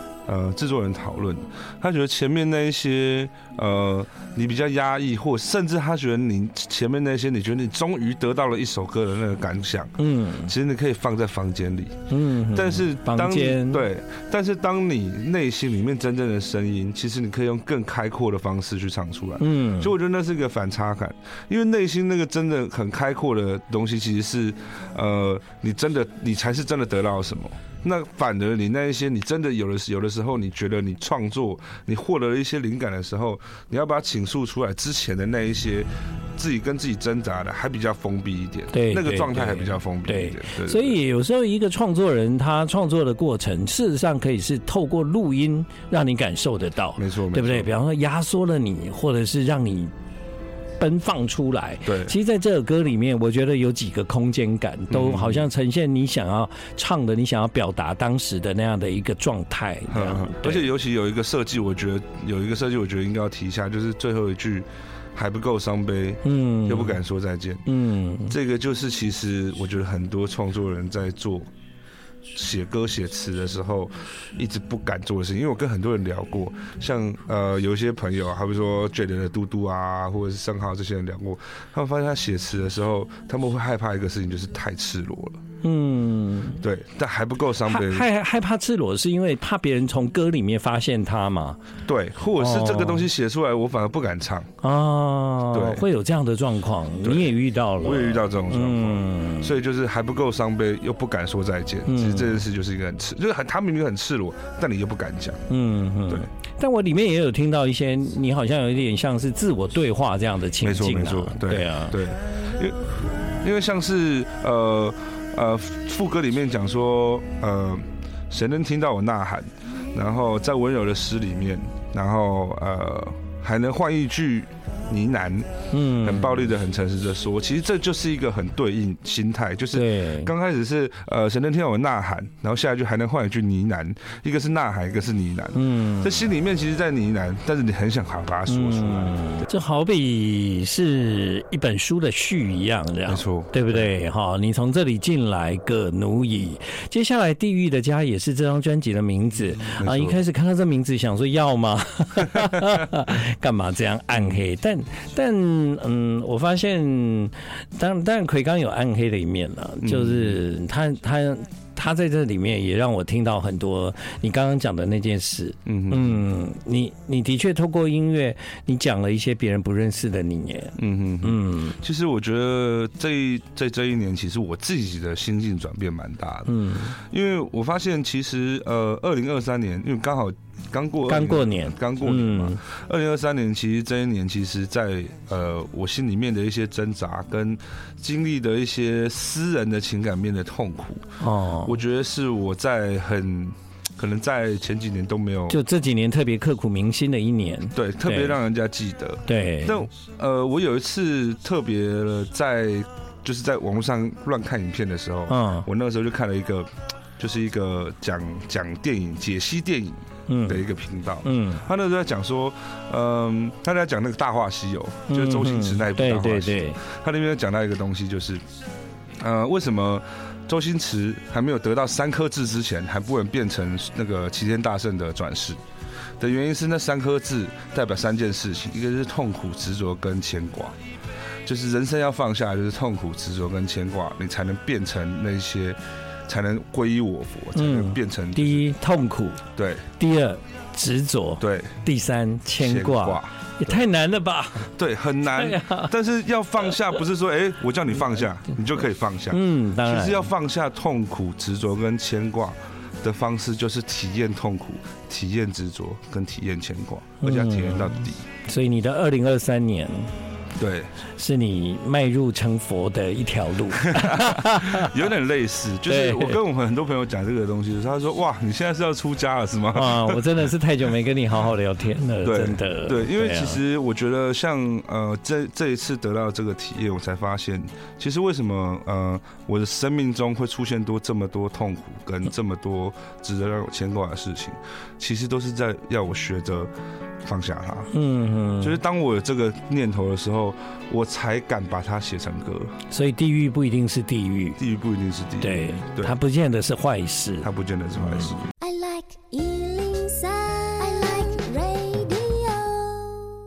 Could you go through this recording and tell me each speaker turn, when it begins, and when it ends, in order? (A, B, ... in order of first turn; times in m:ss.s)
0:00.3-0:41.0 A
0:10.0-0:10.5 B
0:12.1-0:13.9 B
0:19.4-0:19.9 B
0:38.7-0:49.9 B
0:47.0-0:47.7 A
0:50.8-1:00.7 B
0:51.9-0:52.2 A
0:54.9-0:55.5 A
0:59.9-1:07.6 A
1:06.2-1:07.0 B
1:07.7-1:08.4 B
1:08.3-1:11.5 A
1:12.3-1:25.4 A
1:25.6-1:26.6 B
1:26.6-1:28.1 A
1:27.7-1:31.6 B
1:31.9-1:34.5 A
1:32.4-1:33.1 B
1:34.6-1:39.5 B
1:35.5-1:35.8 A
1:37.0-1:45.4 A
1:41.9-1:42.4 B
1:45.5-1:52.0 B
1:50.6-2:19.4 A
2:05.7-2:06.5 B
2:09.7-2:10.3 B
2:15.6-2:16.3 B
2:18.5-2:51.8 B
2:23.1-2:23.9 A
2:29.8-2:30.2 A
2:39.8-2:40.4 A
2:45.7-2:46.2 A
2:50.8-3:15.6 A
2:56.5-2:57.0 B
3:01.1-3:02.6 B
3:11.2-3:11.7 B
3:15.5-3:18.4 B
3:17.8-3:38.4 A
3:19.3-3:19.8 B
3:25.3-3:25.7 B
3:30.3-3:30.7 B
3:31.2-3:31.6 B
3:35.1-3:36.8 B
3:39.2-3:45.6 A
3:46.2-3:50.8 A
3:51.5-3:58.7 A
3:57.6-3:59.4 B
3:59.6-3:59.9 A
4:00.0-4:04.7 B
4:01.4-4:01.8 A
4:02.6-4:03.9 A
4:04.7-4:18.2 A
4:05.4-4:05.9 B
4:09.3-4:10.3 B
4:17.2-4:20.1 B
4:20.6-4:20.9 A
4:21.2-4:25.0 B
4:23.8-4:30.4 A
4:25.9-4:26.4 B
4:29.7-4:33.6 B
4:32.2-4:46.7 A
4:47.2-4:47.9 A
4:47.9-4:48.8 B
4:48.6-4:52.7 A
4:52.9-4:54.6 B
4:54.6-4:56.2 A
4:55.4-4:57.5 B
4:57.4-4:58.4 A
4:58.0-4:58.4 B
4:58.6-5:03.3 C